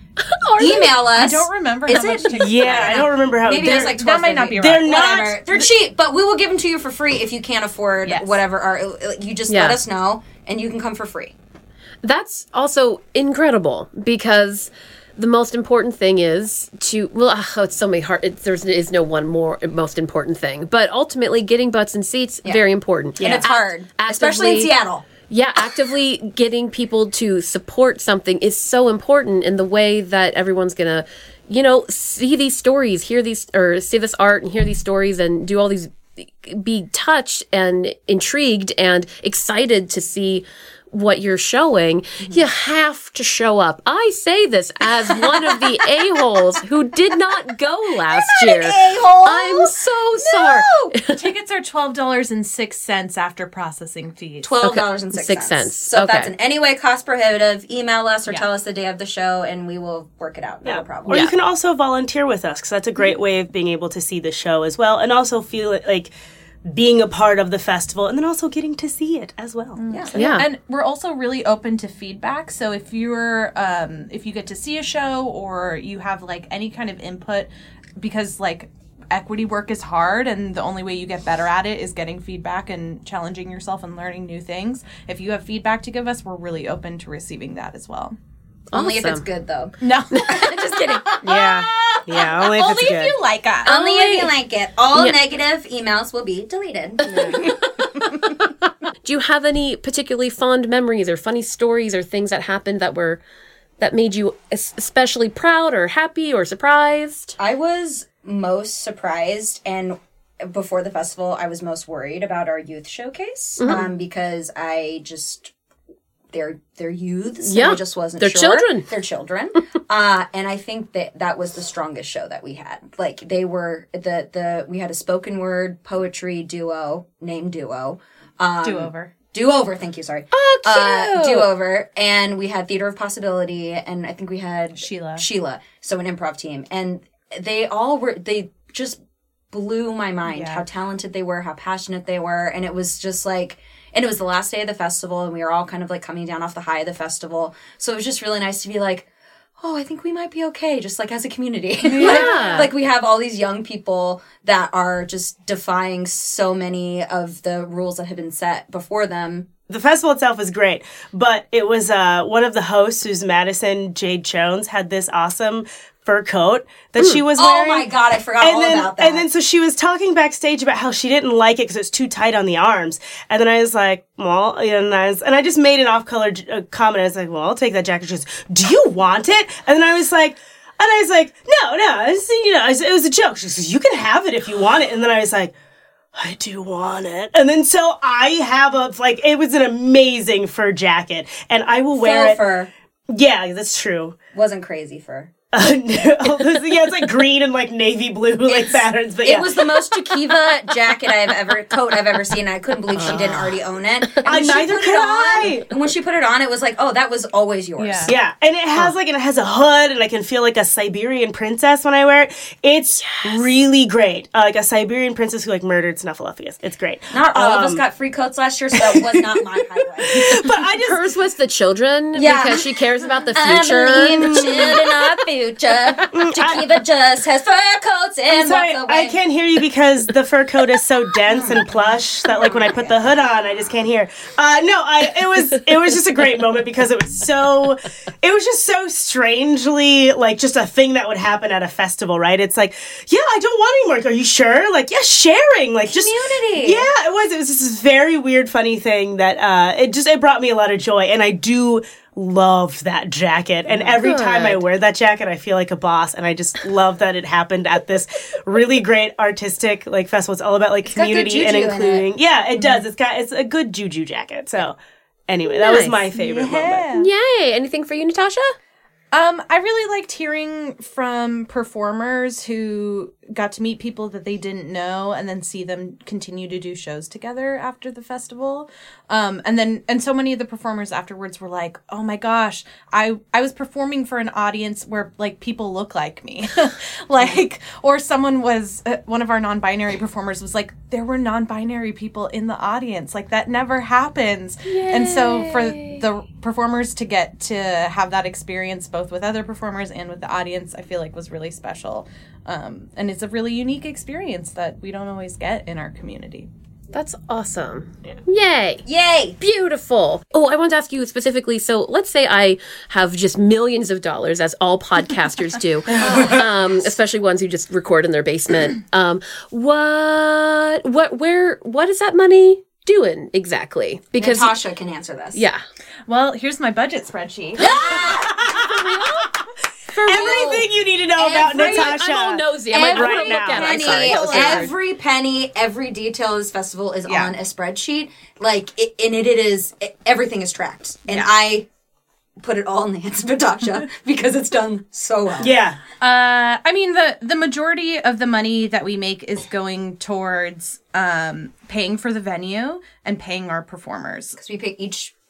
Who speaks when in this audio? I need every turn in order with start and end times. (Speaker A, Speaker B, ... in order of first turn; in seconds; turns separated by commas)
Speaker A: 0.2-1.0, Speaker B: 0.5-11.3, Speaker C: 1.1-5.7, Speaker D: 2.3-4.0, Speaker D: 4.6-5.4, Speaker C: 8.1-8.4, Speaker A: 9.5-9.8, Speaker A: 12.0-24.7, Speaker B: 23.2-25.1, Speaker D: 23.2-23.4, Speaker A: 25.3-51.2, Speaker B: 45.2-45.6, Speaker B: 48.1-51.0, Speaker C: 51.1-54.5, Speaker B: 54.4-61.2, Speaker A: 54.6-56.3, Speaker D: 60.6-66.1, Speaker D: 66.7-69.8, Speaker C: 69.8-88.2, Speaker B: 69.9-70.3, Speaker A: 70.1-70.5, Speaker A: 88.7-89.2, Speaker B: 88.7-91.4, Speaker C: 89.8-90.7, Speaker A: 90.1-91.0, Speaker D: 91.2-93.2, Speaker C: 91.2-93.8, Speaker B: 93.6-97.6, Speaker A: 93.7-94.3, Speaker A: 97.0-97.5, Speaker C: 97.1-97.4, Speaker A: 99.0-103.2, Speaker A: 103.8-107.4, Speaker B: 107.4-115.5, Speaker A: 113.6-113.9, Speaker B: 116.3-139.0, Speaker A: 117.4-118.9, Speaker C: 128.6-129.1, Speaker A: 130.3-131.5, Speaker C: 134.8-135.3, Speaker B: 139.5-149.1, Speaker C: 140.3-140.6, Speaker B: 149.6-159.5, Speaker C: 151.8-152.7, Speaker A: 151.9-152.7, Speaker D: 159.7-167.9, Speaker B: 167.3-169.3, Speaker D: 168.4-185.5, Speaker D: 186.2-192.4, Speaker B: 191.9-192.7, Speaker D: 193.1-194.2, Speaker B: 194.3-195.3, Speaker D: 195.5-200.3, Speaker B: 198.5-208.2, Speaker A: 202.9-203.6, Speaker D: 204.2-205.7, Speaker C: 207.8-208.2, Speaker D: 208.1-217.8, Speaker A: 213.1-213.4, Speaker B: 217.1-220.4, Speaker D: 218.8-219.4, Speaker D: 220.0-221.1, Speaker A: 220.8-224.7, Speaker B: 222.2-222.8, Speaker B: 223.3-229.2, Speaker D: 224.2-224.9, Speaker D: 226.1-226.7, Speaker D: 228.3-264.8, Speaker B: 231.3-231.7, Speaker B: 232.4-233.0, Speaker B: 245.9-246.9, Speaker C: 253.7-254.0, Speaker A: 254.0-254.6, Speaker B: 260.9-262.1, Speaker D: 265.3-266.9, Speaker A: 265.6-266.0, Speaker C: 266.2-267.1, Speaker A: 266.9-268.6, Speaker C: 269.1-306.5, Speaker A: 294.6-296.0, Speaker A: 306.9-308.8, Speaker B: 308.9-309.4, Speaker A: 309.4-324.6, Speaker B: 315.9-316.5, Speaker C: 316.0-316.3, Speaker B: 324.2-325.4, Speaker A: 325.3-325.6, Speaker C: 326.1-329.3, Speaker B: 327.6-328.5, Speaker D: 328.2-328.8, Speaker A: 328.7-329.3, Speaker A: 330.0-330.6, Speaker C: 330.0-330.4, Speaker D: 330.0-333.8, Speaker B: 331.2-332.0, Speaker A: 331.4-334.7, Speaker B: 332.7-341.7, Speaker C: 333.7-334.7, Speaker C: 337.1-337.4, Speaker B: 342.4-345.5, Speaker D: 345.4-345.8, Speaker C: 346.0-354.4, Speaker B: 354.4-355.1